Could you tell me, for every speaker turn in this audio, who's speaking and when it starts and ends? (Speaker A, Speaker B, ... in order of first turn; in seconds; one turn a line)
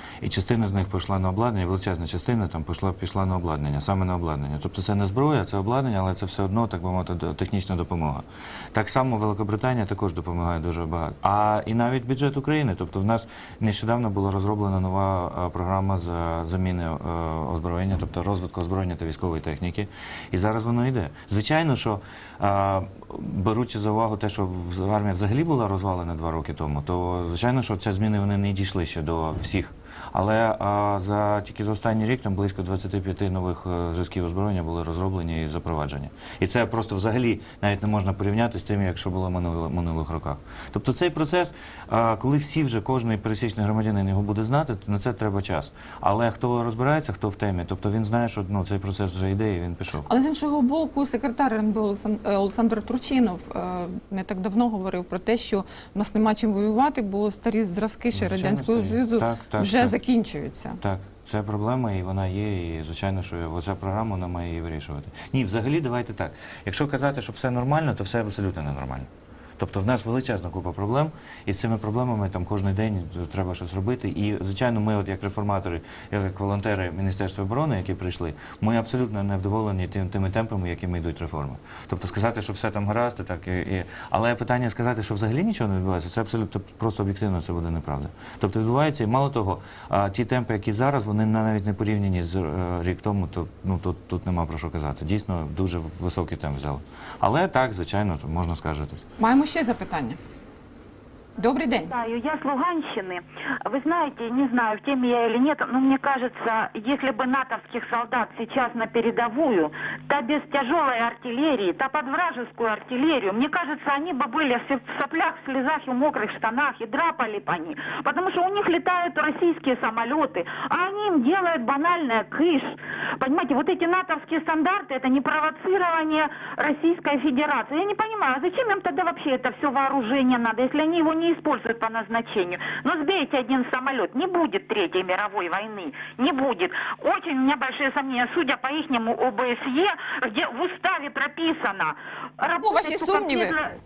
Speaker A: 0.2-50.1
Speaker B: 50.0-60.8
Speaker A: 58.1-60.0
Speaker A: 60.8-99.0
Speaker B: 99.2-100.2
Speaker B: 101.4-101.9
Speaker C: 101.9-143.5
Speaker B: 142.6-143.6